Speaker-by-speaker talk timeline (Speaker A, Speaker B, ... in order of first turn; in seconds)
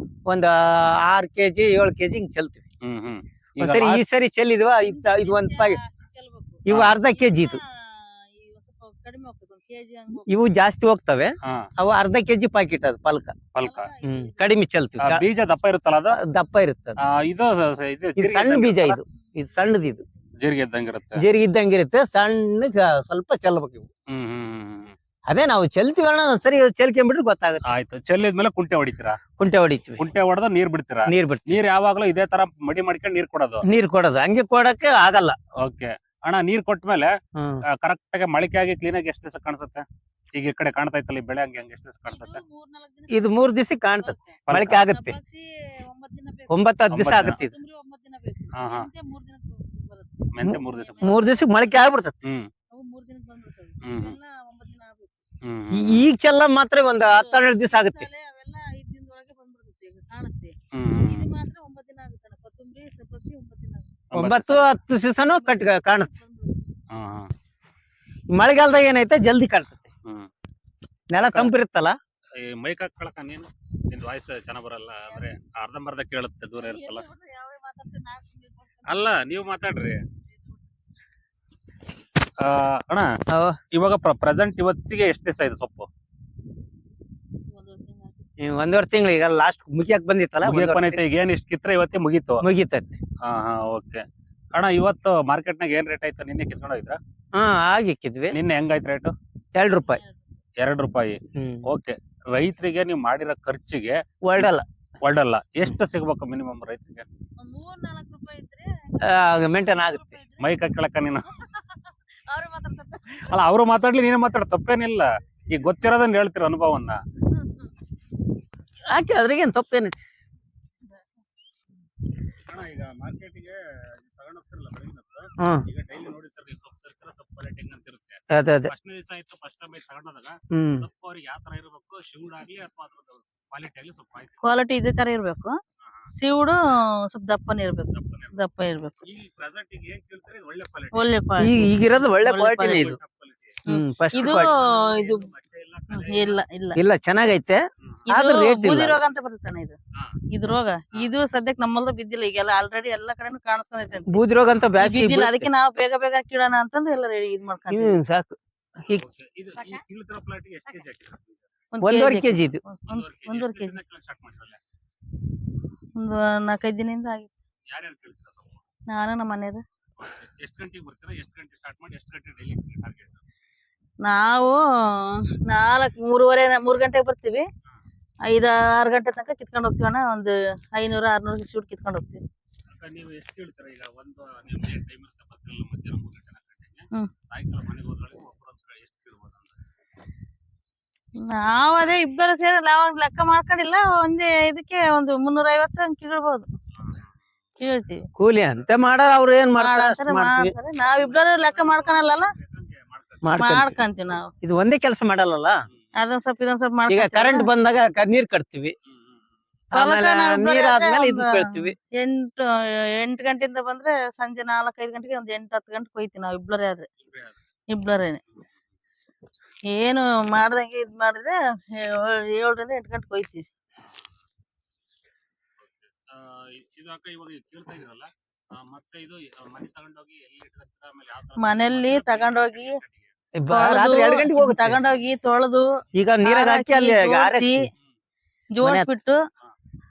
Speaker A: 0.3-2.6, 3.6-5.8, 6.7-7.6, 10.3-13.4, 14.0-15.2, 16.1-17.0, 18.2-20.0, 21.2-23.9, 25.3-27.6, 29.4-30.0, 31.1-31.5, 33.7-35.4, 37.4-37.6, 43.1-45.2, 46.5-47.5, 50.5-52.2, 55.7-58.1, 64.2-66.1, 68.3-69.8, 71.1-72.0, 83.3-83.6, 88.4-91.0, 92.4-93.0, 97.3-98.3, 99.5-100.0, 101.4-101.6, 104.2-104.7, 109.0-110.2, 118.9-120.0, 128.3-128.7, 130.5-130.9, 141.4-143.0, 143.7-144.5, 146.8-149.0, 154.1-155.5, 157.7-159.0, 161.8-162.6, 198.2-200.5, 203.2-203.8, 204.4-205.6, 206.9-208.8, 209.7-211.8, 233.4-234.8, 235.9-237.6, 238.6-238.9
Speaker B: 2.8-4.0, 6.7-7.0, 11.4-11.7, 13.5-13.9, 15.0-16.2, 17.0-19.0, 20.4-21.2, 24.1-24.9, 27.6-29.2, 30.0-33.6, 35.6-37.1, 37.7-42.4, 44.5-44.8, 46.9-47.4, 48.5-48.9, 50.3-51.2, 52.2-52.5, 53.8-54.2, 55.4-56.1, 60.7-61.3, 64.1-64.8, 66.9-67.3, 71.2-71.5, 72.4-77.1, 78.8-80.0, 82.4-83.1, 83.7-85.9, 90.4-92.4, 93.2-97.0, 98.3-99.1, 100.6-104.5, 105.0-107.1, 110.4-111.3, 113.1-117.0, 122.5-134.4, 135.8-136.1, 137.9-138.3, 139.0-141.1, 142.7-143.6, 144.2-146.4, 147.8-148.1, 158.9-161.4, 162.9-164.6, 167.7-168.6, 170.0-173.2, 182.7-189.6, 196.8-197.2, 200.8-203.4, 208.9-209.4, 217.0-217.4, 225.6-233.2
Speaker C: 4.8-10.3, 13.6-14.6, 19.4-19.9, 42.1-52.0, 52.7-55.2, 57.0-64.0, 65.2-66.7, 76.6-79.5, 80.3-80.6, 87.5-88.2, 99.7-100.4, 107.4-113.4, 117.3-117.7, 134.4-135.6, 136.1-139.0, 140.9-143.0, 143.7-145.3, 145.9-146.8, 148.1-149.8, 150.3-154.2, 154.8-158.0, 161.7-163.8, 166.0-167.3, 168.9-169.6, 174.1-177.5, 178.3-182.2, 191.2-196.5, 197.6-198.1, 199.6-202.3, 203.4-204.3, 206.0-207.5, 209.7-216.9, 217.7-218.2, 219.7-223.4, 231.4-232.8, 233.5-235.7, 236.2-237.7, 238.6-239.2